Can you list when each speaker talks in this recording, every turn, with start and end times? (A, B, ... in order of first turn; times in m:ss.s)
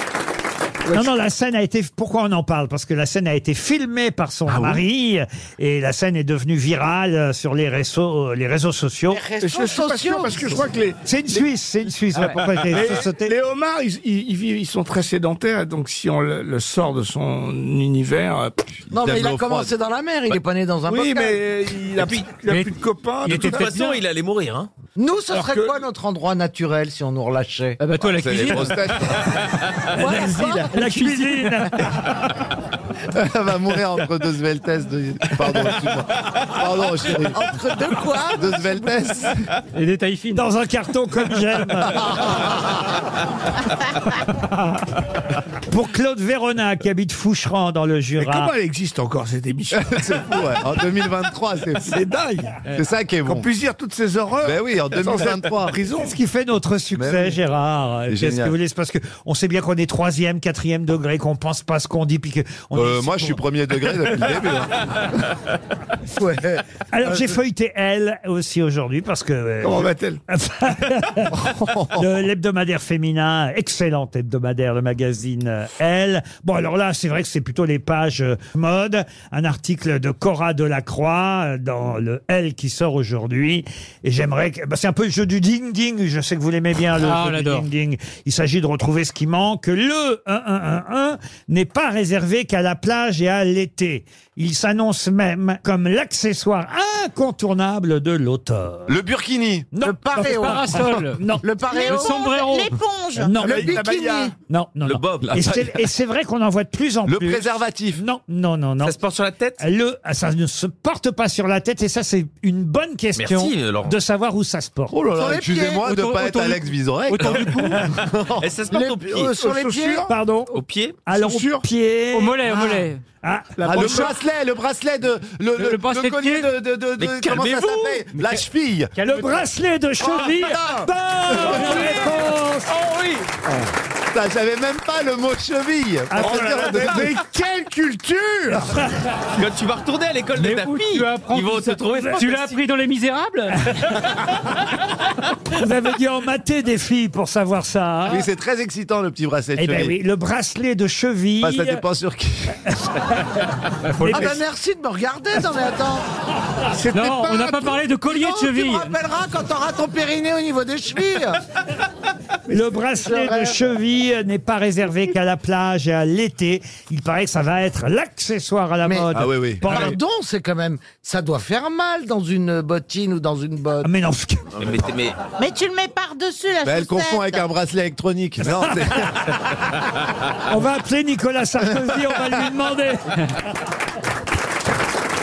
0:00.9-0:09.2 A
0:04.5-0:04.8 B
0:09.1-0:10.6 C
0:09.4-0:11.4 D
0:11.0-0:13.3 A
0:12.5-0:18.7 D
0:18.9-0:19.7 B
0:18.9-0:21.4 C
0:20.8-0:23.9 D
0:22.0-0:22.3 E
0:22.4-0:23.9 F
0:23.3-0:24.7 E
0:25.0-0:27.8 C
0:25.3-0:25.8 D
0:27.8-0:28.9 F
0:28.0-0:29.4 B
0:29.5-0:29.8 E
0:29.9-0:31.0 C
0:30.0-0:32.1 A
0:30.0-0:31.5 D
0:33.1-0:37.4 B
0:37.1-0:39.3 C
0:38.2-0:39.5 B
0:39.7-0:40.4 F
0:40.3-0:42.1 A
0:45.7-0:48.5 A
0:48.2-0:50.5 D
0:49.7-0:52.0 B
0:51.8-0:52.6 D
0:52.7-0:53.5 B
0:53.2-0:56.1 D
0:54.4-0:55.8 B
0:56.0-1:03.4 A
0:57.0-0:57.4 B
0:58.1-0:58.5 B
1:02.7-1:05.0 B
1:06.2-1:07.2 C
1:06.9-1:38.9 A
1:09.6-1:10.2 D
1:11.3-1:12.0 B
1:27.0-1:27.7 F
1:38.9-1:39.7 B
1:39.7-1:41.4 A
1:39.8-1:42.2 C
1:40.2-1:42.8 F
1:41.6-1:44.0 G
1:43.2-1:43.8 A
1:43.4-1:44.4 D
1:43.5-1:44.3 C
1:44.5-1:49.0 A
1:44.9-1:45.2 E
1:44.9-1:45.7 B
1:47.0-1:48.0 B
1:48.8-1:49.6 E
1:49.6-1:55.0 A
1:53.2-1:54.0 E
1:54.9-1:58.5 B
1:55.1-1:55.8 C
1:55.8-1:57.5 F
1:57.2-1:59.3 E
1:58.7-2:00.1 C
1:59.4-2:00.1 D
2:00.1-2:00.5 A
2:00.5-2:01.0 E
2:01.0-2:04.1 A
2:01.1-2:01.6 D
2:02.1-2:03.0 F
2:03.6-2:04.2 D
2:03.6-2:08.9 B
2:05.5-2:06.5 F
2:07.0-2:08.1 E
2:08.9-2:09.4 F
2:09.0-2:12.7 A
2:14.1-2:17.2 B
2:16.1-2:17.0 A
2:16.1-2:18.7 D
2:19.4-2:22.5 E
2:20.3-2:23.8 F
2:25.5-2:28.2 A
2:28.0-2:30.0 B
2:29.6-2:31.8 A
2:31.4-2:32.6 B
2:33.8-2:34.3 F
2:34.0-2:34.4 A
2:34.1-2:36.0 C
2:36.7-2:37.8 D
2:36.9-2:39.0 F
2:38.1-2:41.4 C
2:42.5-2:50.0 A
2:43.0-2:43.6 C
2:48.8-2:49.1 C
2:49.1-2:49.9 B
2:49.6-2:53.9 C
2:53.8-2:54.5 A
2:54.6-2:54.9 B
2:54.6-2:55.2 E
2:55.4-2:57.5 G
2:56.6-2:59.3 B
3:00.5-3:03.0 A